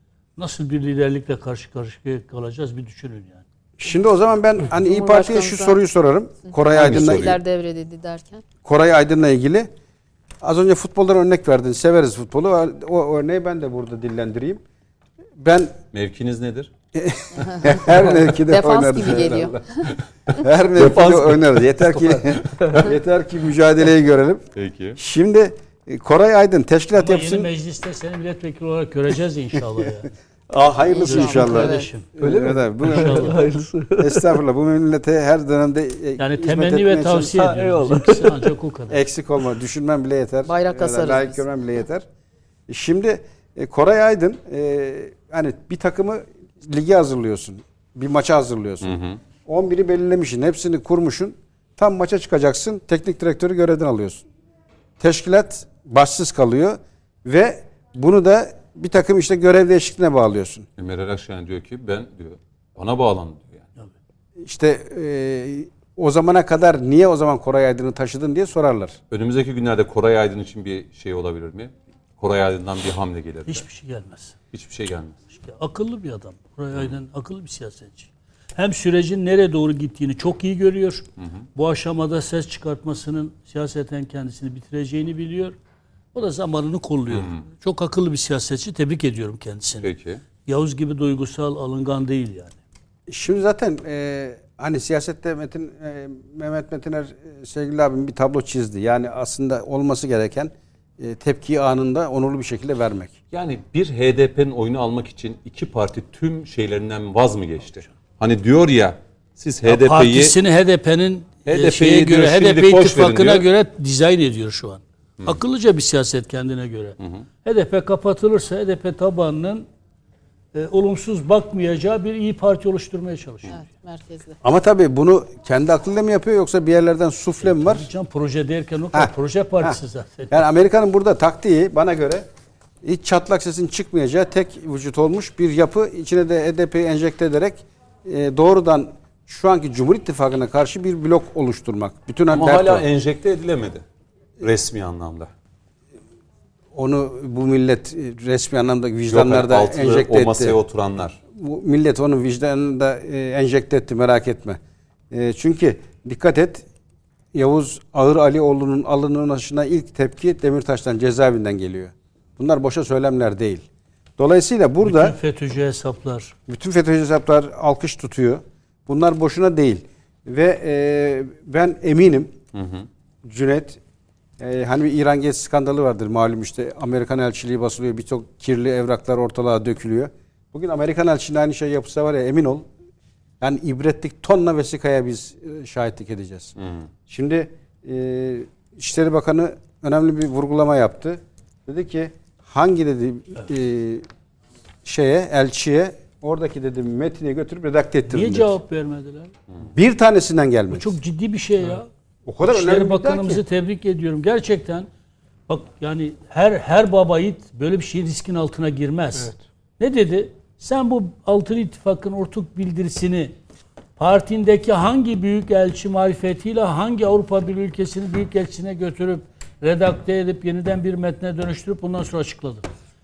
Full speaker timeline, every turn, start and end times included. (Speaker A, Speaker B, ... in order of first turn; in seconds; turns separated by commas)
Speaker A: 0.4-3.4, Speaker B: 3.8-7.4, Speaker C: 4.8-5.8, Speaker C: 6.5-8.4, Speaker D: 6.7-7.4, Speaker B: 8.6-9.7, Speaker B: 10.4-14.6, Speaker B: 15.4-15.8, Speaker D: 15.9-16.7, Speaker B: 16.9-19.6, Speaker C: 17.5-19.9, Speaker B: 20.4-27.5, Speaker D: 20.8-21.9, Speaker E: 22.1-22.9, Speaker D: 24.6-25.0, Speaker A: 27.0-30.1, Speaker B: 30.5-33.4, Speaker C: 30.9-31.9, Speaker A: 31.0-32.1, Speaker E: 32.2-34.4, Speaker A: 32.8-33.5, Speaker B: 34.0-37.5, Speaker A: 36.2-39.0, Speaker E: 37.4-38.5, Speaker B: 38.9-42.0, Speaker C: 40.5-41.4, Speaker B: 42.7-54.2, Speaker D: 48.8-49.2, Speaker B: 55.0-60.7, Speaker D: 60.8-63.7, Speaker B: 64.4-69.0, Speaker D: 69.1-73.7, Speaker A: 73.5-74.4, Speaker D: 74.5-75.2, Speaker A: 75.3-85.5, Speaker A: 86.1-89.9, Speaker D: 87.1-87.4, Speaker D: 89.8-90.2, Speaker A: 90.5-92.6, Speaker B: 93.1-103.1, Speaker D: 103.3-110.3, Speaker A: 109.7-119.7, Speaker D: 111.5-113.5, Speaker D: 117.0-117.2, Speaker A: 120.5-123.6, Speaker C: 123.5-124.4, Speaker B: 124.4-127.9, Speaker A: 127.4-130.4, Speaker B: 128.9-129.8, Speaker B: 130.3-132.3, Speaker B: 132.8-142.8, Speaker D: 142.3-143.8, Speaker D: 144.4-145.3, Speaker B: 146.7-150.6, Speaker D: 149.1-151.2, Speaker B: 151.3-154.6, Speaker B: 155.1-156.6, Speaker B: 157.3-163.7, Speaker B: 164.2-165.2, Speaker A: 164.8-166.3, Speaker B: 166.5-172.3, Speaker D: 172.5-172.9, Speaker B: 173.2-173.8, Speaker B: 174.4-182.7, Speaker B: 183.4-186.6, Speaker D: 186.6-186.9, Speaker B: 187.1-194.1, Speaker B: 194.8-198.5, Speaker A: 198.1-199.3, Speaker B: 199.7-200.9, Speaker A: 200.7-201.9, Speaker B: 202.3-203.4, Speaker A: 202.4-204.9, Speaker A: 205.5-213.3, Speaker A: 214.0-222.7